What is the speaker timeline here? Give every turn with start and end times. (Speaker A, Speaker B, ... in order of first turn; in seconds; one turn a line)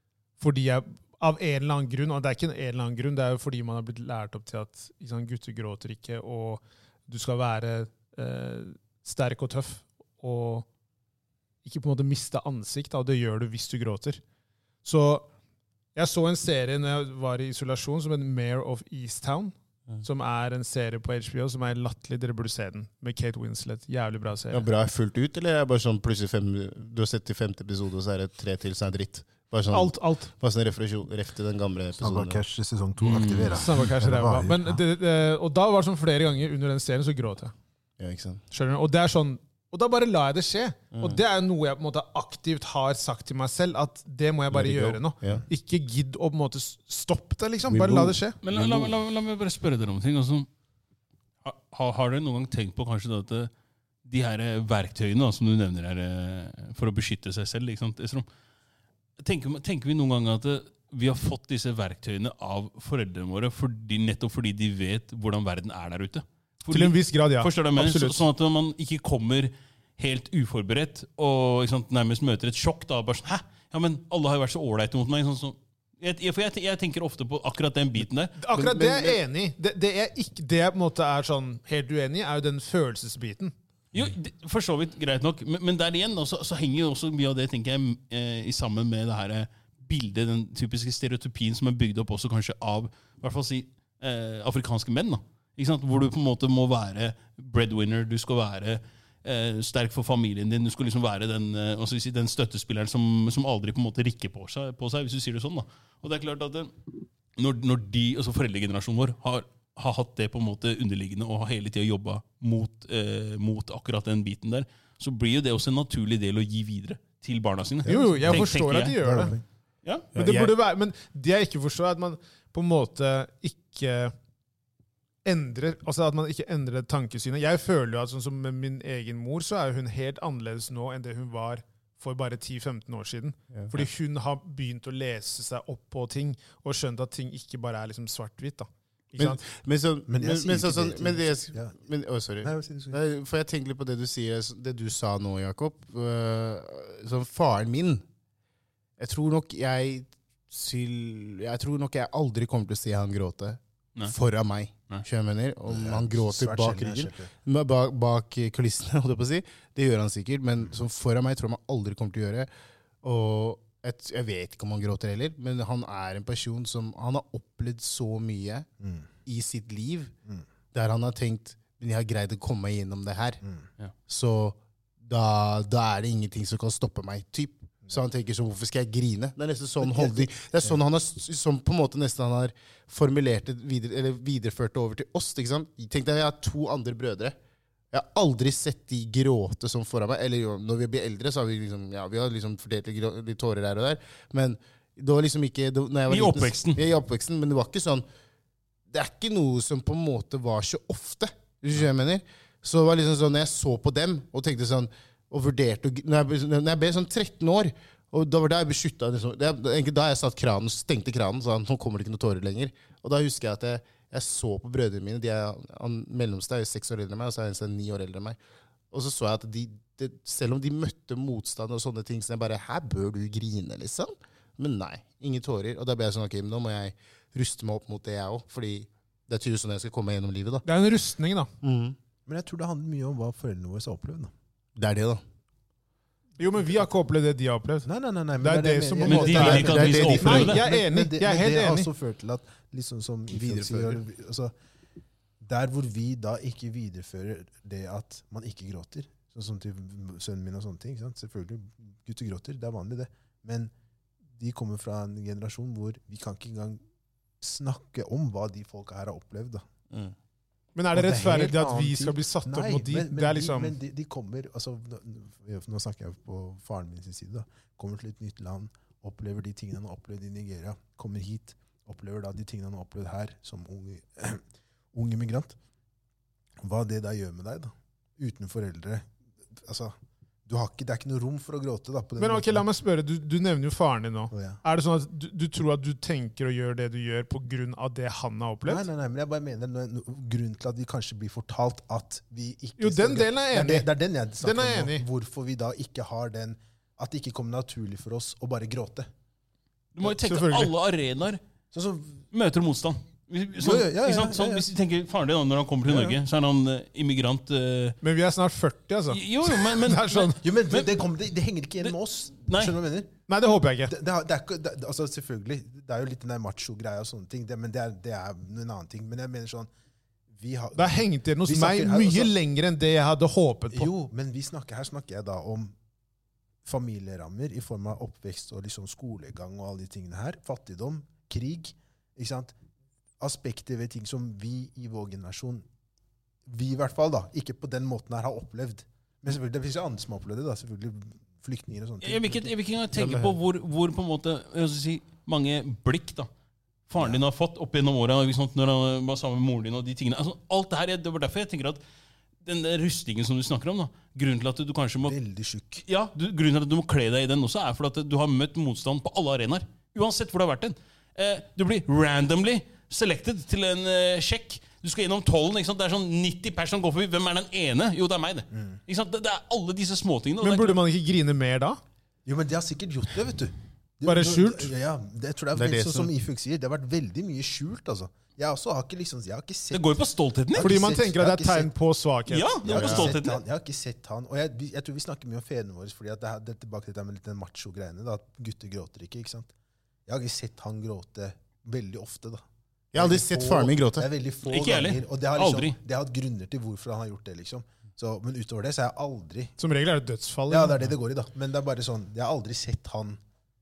Speaker A: 0.4-10.7
Speaker A: 11.6-14.2
Speaker A: 14.8-15.3
Speaker A: 15.9-24.7
Speaker B: 24.5-32.4
Speaker A: 29.7-30.3
Speaker C: 32.0-34.8
Speaker D: 33.0-33.7
Speaker A: 33.5-37.5
Speaker B: 38.0-38.4
Speaker A: 38.5-48.4
Speaker B: 40.9-41.2
Speaker B: 44.5-45.5
Speaker B: 47.7-49.0
Speaker D: 48.4-50.5
Speaker D: 51.4-53.5
Speaker D: 54.0-58.3
Speaker D: 59.2-78.3
Speaker A: 66.7-68.2
Speaker A: 78.4-83.5
Speaker B: 78.5-79.2
Speaker D: 83.9-119.0
Speaker C: 117.8-118.5
Speaker A: 117.9-119.3
Speaker C: 119.0-119.4
Speaker B: 120.1-120.5
Speaker A: 120.2-124.1
Speaker A: 125.2-139.4
Speaker B: 133.5-133.8
Speaker B: 139.2-148.1
Speaker C: 140.1-141.8
Speaker C: 142.4-143.0
Speaker B: 149.0-162.5
Speaker C: 155.7-157.3
Speaker B: 163.0-168.7
Speaker C: 168.8-169.1
Speaker B: 169.2-170.1
Speaker B: 170.7-173.4
Speaker B: 174.1-187.4
Speaker C: 179.8-180.8
Speaker B: 187.9-198.1
Speaker D: 196.1-196.8
Speaker B: 198.9-218.4
Speaker B: 218.9-230.7
Speaker A: 230.7-231.5
Speaker B: 231.6-232.0
Speaker C: 232.3-234.3
Speaker B: 234.8-235.2
Speaker A: 236.4-237.9
Speaker C: 237.8-244.5
Speaker A: 238.4-241.9
Speaker D: 239.0-240.6
Speaker B: 239.5-240.6
Speaker B: 243.3-244.0
Speaker C: 245.4-253.7
Speaker C: 254.4-256.8
Speaker C: 257.4-259.6
Speaker A: 260.8-263.8
Speaker C: 260.9-275.6
Speaker C: 276.6-279.9
Speaker C: 280.5-282.7
Speaker A: 282.2-288.9
Speaker C: 284.3-284.6
Speaker C: 288.6-299.1
Speaker A: 292.8-293.9
Speaker A: 294.4-295.1
Speaker D: 299.9-301.4
Speaker A: 300.1-300.7
Speaker C: 301.7-302.2
Speaker D: 302.3-308.0
Speaker C: 303.6-304.7
Speaker C: 305.9-306.2
Speaker A: 308.0-310.4
Speaker D: 309.1-311.0
Speaker C: 310.4-313.1
Speaker D: 312.5-312.8
Speaker A: 313.3-313.9
Speaker C: 313.9-319.7
Speaker C: 320.3-322.3
Speaker A: 320.8-323.9
Speaker C: 323.7-325.8
Speaker C: 326.6-332.6
Speaker C: 333.2-335.6
Speaker C: 336.5-342.5
Speaker D: 342.0-346.3
Speaker B: 342.9-343.4
Speaker D: 346.9-351.8
Speaker D: 352.4-355.2
Speaker C: 355.1-355.8
Speaker D: 355.9-370.8
Speaker C: 368.5-368.8
Speaker A: 370.4-371.8
Speaker C: 372.3-380.0
Speaker A: 374.0-374.7
Speaker B: 375.6-376.1
Speaker D: 379.7-380.7
Speaker C: 380.5-381.7
Speaker A: 380.6-383.1
Speaker D: 382.3-383.4
Speaker C: 382.6-389.5
Speaker C: 390.1-392.4
Speaker B: 392.9-394.1
Speaker C: 392.9-399.6
Speaker D: 394.5-395.8
Speaker A: 399.6-400.8
Speaker C: 400.5-403.2